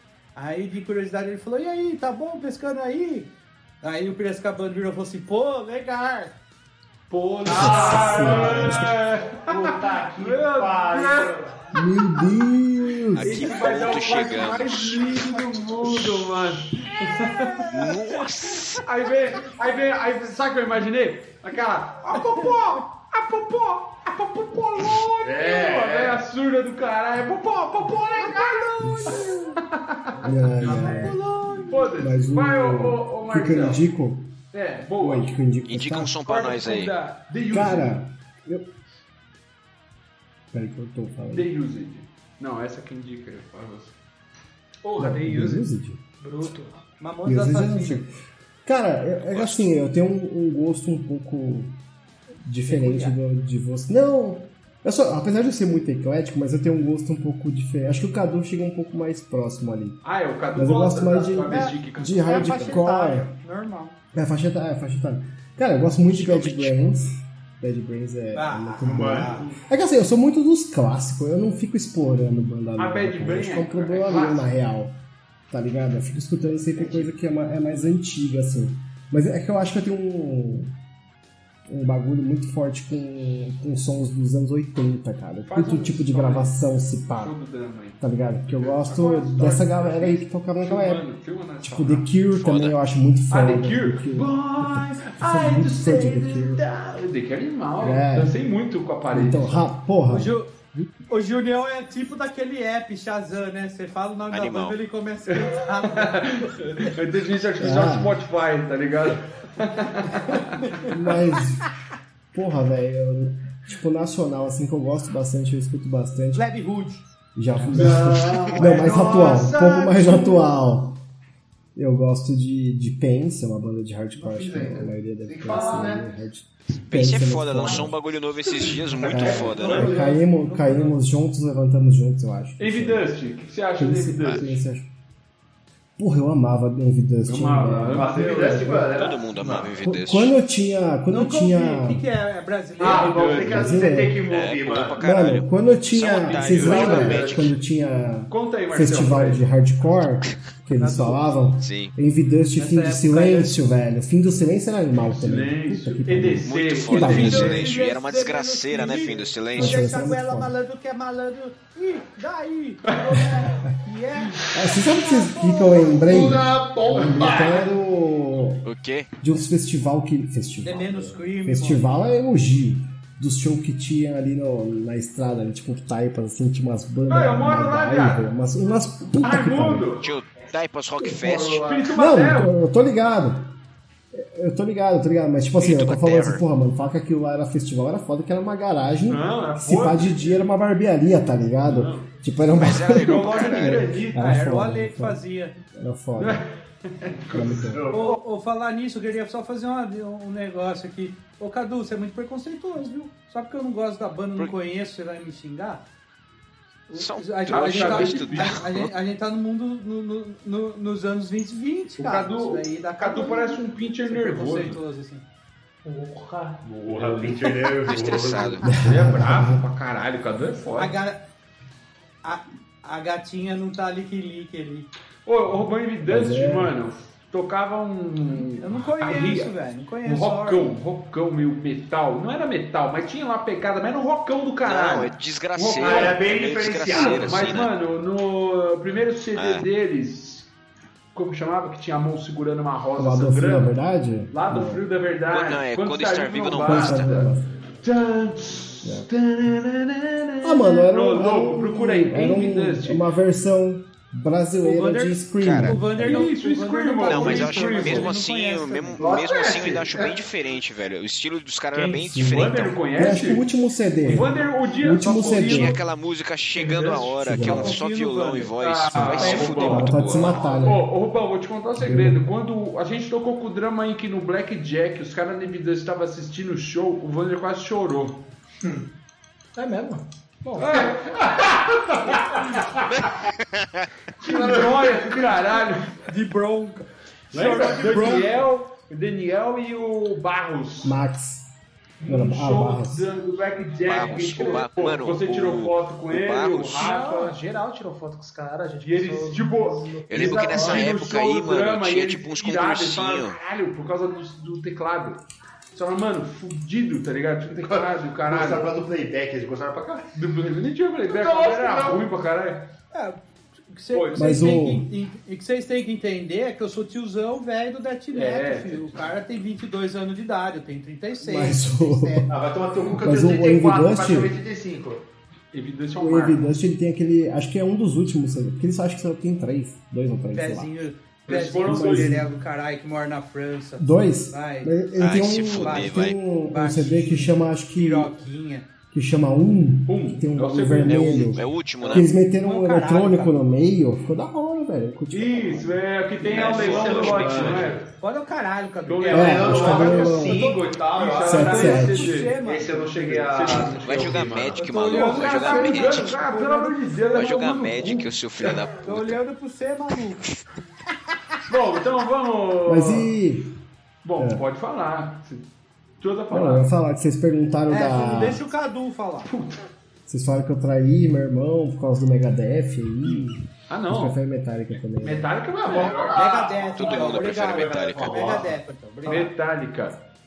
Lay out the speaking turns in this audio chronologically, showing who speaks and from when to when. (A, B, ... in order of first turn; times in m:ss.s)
0:00.4-0:03.3 A
0:03.8-0:06.4 A
0:07.1-0:11.3 B
0:07.4-0:11.6 C
0:07.5-0:09.0 D
0:11.7-0:13.5 D
0:13.2-0:15.1 E
0:13.2-0:17.7 B
0:17.2-0:17.6 A
0:17.7-0:18.8 E
0:18.8-0:31.1 B
0:25.2-0:26.2 C
0:28.3-0:29.3 A
0:28.8-0:29.6 D
0:30.2-0:31.2 D
0:30.6-0:31.8 A
0:31.7-0:33.8 B
0:31.9-0:34.4 D
0:34.5-0:35.3 B
0:35.0-0:36.2 D
0:35.6-0:37.0 E
0:36.2-0:37.3 F
0:37.3-0:37.9 B
0:37.5-0:38.7 D
0:40.5-0:41.5 D
0:41.3-0:43.9 B
0:44.8-0:45.7 F
0:45.0-0:46.0 D
0:46.2-0:46.8 F
0:47.0-0:48.0 A
0:47.2-0:48.1 D
0:48.6-0:51.8 D
0:49.2-0:49.7 E
0:52.4-1:03.3 D
0:52.7-0:53.2 A
1:00.0-1:02.7 B
1:01.5-1:04.0 A
1:04.1-1:15.0 D
1:06.1-1:06.8 E
1:08.3-1:09.5 A
1:08.8-1:09.5 C
1:12.8-1:14.5 B
1:15.5-1:20.7 D
1:21.7-1:27.3 D
1:25.4-1:26.5 B
1:27.1-1:28.0 B
1:28.0-1:31.0 D
1:28.6-1:32.1 B
1:31.6-1:36.6 D
1:32.3-1:32.7 E
1:33.3-1:39.7 B
1:37.8-1:38.4 D
1:39.1-1:40.3 D
1:40.1-1:40.5 A
1:41.1-1:46.6 A
1:44.3-1:44.8 E
1:45.3-1:50.7 B
1:47.6-1:48.2 D
1:50.8-1:51.7 D
1:52.3-1:56.4 D
1:56.3-1:57.0 A
1:57.3-2:01.0 D
1:57.7-2:00.4 B
2:01.8-2:08.0 D
2:04.2-2:06.1 C
2:05.5-2:05.8 A
2:06.9-2:10.0 E
2:08.4-2:11.0 A
2:08.5-2:09.7 B
2:08.9-2:13.1 D
2:12.6-2:14.6 B
2:13.8-2:14.9 D
2:16.0-2:18.9 D
2:17.2-2:19.7 B
2:17.9-2:19.6 C
2:18.9-2:20.3 E
2:19.8-2:22.0 D
2:21.1-2:23.2 A
2:22.8-2:23.8 B
2:22.8-2:25.0 C
2:23.4-2:24.2 D
2:24.3-2:27.5 E
2:25.0-2:37.7 D
2:26.3-2:27.5 C
2:28.3-2:29.4 B
2:30.8-2:31.2 F
2:31.6-2:31.9 E
2:32.6-2:33.6 F
2:35.0-2:39.2 B
2:36.4-2:39.9 E
2:37.1-2:46.4 A
2:39.5-2:40.5 D
2:44.5-2:48.7 D
2:46.0-2:47.7 C
2:48.6-2:49.1 E
2:49.2-2:59.9 D
2:50.6-2:51.8 A
2:57.1-2:58.3 B
2:59.2-3:00.1 B
3:00.0-3:01.8 E
3:01.0-3:02.5 B
3:01.3-3:01.7 C
3:01.9-3:03.5 D
3:04.1-3:15.2 D
3:05.6-3:06.4 E
3:09.1-3:10.4 B
3:11.6-3:12.1 B
3:12.5-3:13.9 E
3:12.8-3:14.7 B
3:14.4-3:15.6 A
3:15.7-3:16.4 D
3:16.2-3:17.2 B
3:17.3-3:18.2 C
3:17.3-3:17.9 D
3:17.9-3:25.8 A
3:26.9-3:35.2 A
3:26.9-3:28.9 E
3:27.5-3:28.6 B
3:32.0-3:34.8 B
3:35.8-3:36.6 F
3:36.7-3:37.5 B
3:36.8-3:38.7 C
3:37.8-3:38.8 E
3:38.6-3:40.9 B
3:38.7-3:39.6 D
3:40.7-3:41.2 A
3:42.2-3:44.9 A
3:45.2-3:56.2 B
3:46.0-3:46.8 D
3:48.5-3:50.8 A
3:54.6-3:57.7 E
3:55.8-3:57.4 C
3:56.9-4:00.5 B
3:59.3-3:59.6 E
4:01.1-4:03.7 B
4:03.0-4:04.8 D
4:04.3-4:07.3 B
4:05.3-4:07.1 E
4:06.5-4:07.5 D
4:07.8-4:13.0 B
4:08.8-4:09.1 D
4:10.4-4:16.3 D
4:14.6-4:19.1 A
4:15.4-4:15.8 E
4:16.0-4:18.1 B
4:17.0-4:22.9 E
4:19.0-4:20.2 C
4:21.7-4:22.1 F
4:22.0-4:25.8 D
4:22.2-4:23.4 B
4:24.0-4:25.7 B
4:25.0-4:25.7 A
4:25.2-4:30.5 E
4:26.6-4:27.3 B
4:27.2-4:27.8 D
4:27.4-4:29.9 A
4:28.6-4:38.2 B
4:29.7-4:30.8 D
4:31.8-4:32.2 D
4:39.6-4:40.9 F
4:40.6-4:42.8 B
4:41.4-4:42.4 C
4:42.9-4:43.9 E
4:44.2-4:45.6 C
4:44.2-4:45.9 B
4:46.0-4:48.3 A
4:47.3-4:51.0 B
4:47.3-4:48.2 C
4:50.8-4:51.5 D
4:52.0-4:57.4 B
4:52.0-4:53.1 D
4:53.8-4:56.9 E
4:56.8-5:00.8 F
4:58.8-5:05.2 B
5:00.1-5:03.4 E
5:05.7-5:08.7 B
5:07.7-5:10.0 C
5:10.1-5:12.7 B
5:11.0-5:12.1 C
5:12.9-5:22.3 A
5:13.9-5:14.3 B
5:14.1-5:14.9 D
5:18.1-5:18.9 B
5:21.2-5:22.4 D
5:22.3-5:25.0 C
5:22.9-5:24.4 D
5:25.5-5:26.5 B
5:26.0-5:30.7 D
5:30.3-5:34.8 A
5:31.3-5:32.2 B
5:31.3-5:32.3 D
5:33.8-5:38.1 D
5:35.0-5:36.2 E
5:35.5-5:38.7 A
5:38.9-5:45.8 D
5:39.9-5:42.0 B
5:40.8-5:42.1 E
5:42.2-5:43.3 A
5:45.1-5:47.8 B
5:46.2-5:47.8 E
5:46.2-5:47.8 C
5:48.0-5:50.1 A
5:48.9-5:58.6 B
5:49.0-5:51.8 C
5:49.1-5:50.5 D
5:51.2-5:52.2 D
5:51.4-5:52.8 A
5:52.4-5:54.6 C
5:53.8-5:56.1 E
5:54.6-5:56.9 A
5:57.1-5:59.2 E
5:58.8-6:00.2 A
6:01.5-6:03.1 B
6:02.6-6:03.5 D
6:04.0-6:05.5 B
6:04.2-6:04.4 D
6:06.0-6:06.7 B
6:06.3-6:08.4 D
6:07.7-6:09.3 A
6:09.2-6:09.6 B
6:10.1-6:15.3 D
6:13.7-6:14.2 B
6:15.0-6:16.2 B
6:15.6-6:18.5 C
6:15.9-6:19.3 A
6:16.7-6:18.4 E
6:19.0-6:20.0 B